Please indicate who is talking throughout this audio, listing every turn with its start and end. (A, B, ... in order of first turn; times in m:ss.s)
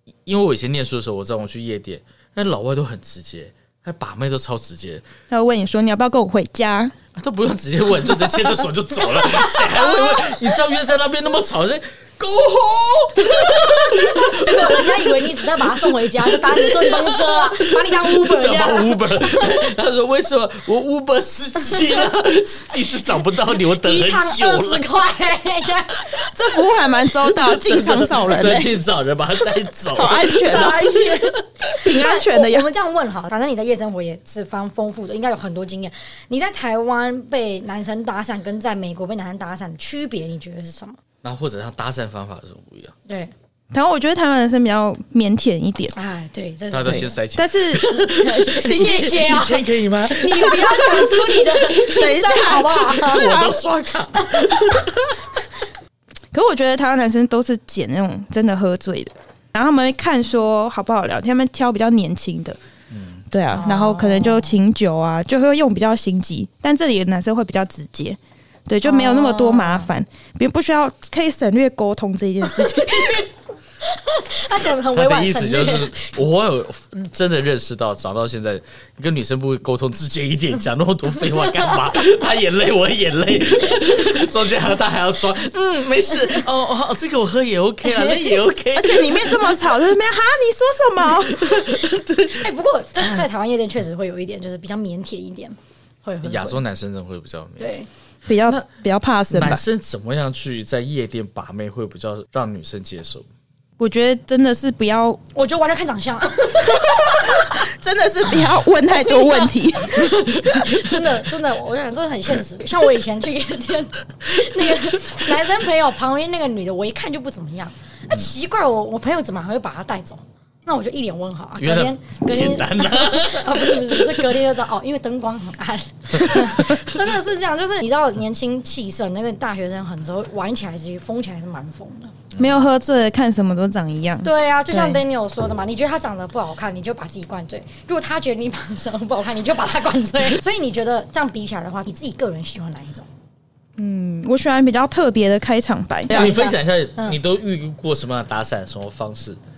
0:00.2-0:05.0 A
0:05.3-0:07.0 B
0:07.1-0:25.0 A
0:09.0-0:10.5 C
0:13.5-0:19.7 C
0:23.7-0:26.3 C
0:26.3-0:28.8 B
0:27.3-0:31.3 A
0:30.0-0:31.1 B
0:30.3-0:41.0 C
0:31.8-0:32.7 B
0:41.2-0:43.0 A
0:43.1-0:43.3 C
0:43.7-0:45.9 B
0:45.9-0:47.2 C
0:46.7-0:55.2 A
0:46.9-0:47.9 B
0:47.9-0:53.5 C
0:48.6-0:49.2 B
0:51.9-0:53.6 B
0:54.2-0:54.8 C
0:56.3-1:02.6 B
1:02.9-1:03.2 A
1:03.3-1:13.2 B
1:03.5-1:04.6 C
1:08.8-1:09.9 C
1:12.5-1:13.3 C
1:13.8-1:16.1 C
1:14.9-1:29.6 A
1:21.4-1:21.8 C
1:23.8-1:24.0 C
1:27.9-1:28.4 C
1:28.7-1:31.7 B
1:31.1-1:32.5 A
1:32.2-1:36.6 C
1:36.2-1:37.7 A
1:37.6-1:37.9 C
1:38.2-1:39.6 B
1:39.3-1:43.2 A
1:43.8-1:45.2 B
1:45.4-1:47.6 C
1:46.8-1:50.7 B
1:48.9-2:12.1 C
1:50.4-1:50.7 A
2:01.6-2:04.2 A
2:06.3-2:07.0 A
2:12.3-2:12.6 A
2:12.4-2:15.0 B
2:14.2-2:23.1 C
2:23.8-2:26.3 B
2:26.1-2:27.2 C
2:26.1-2:29.4 A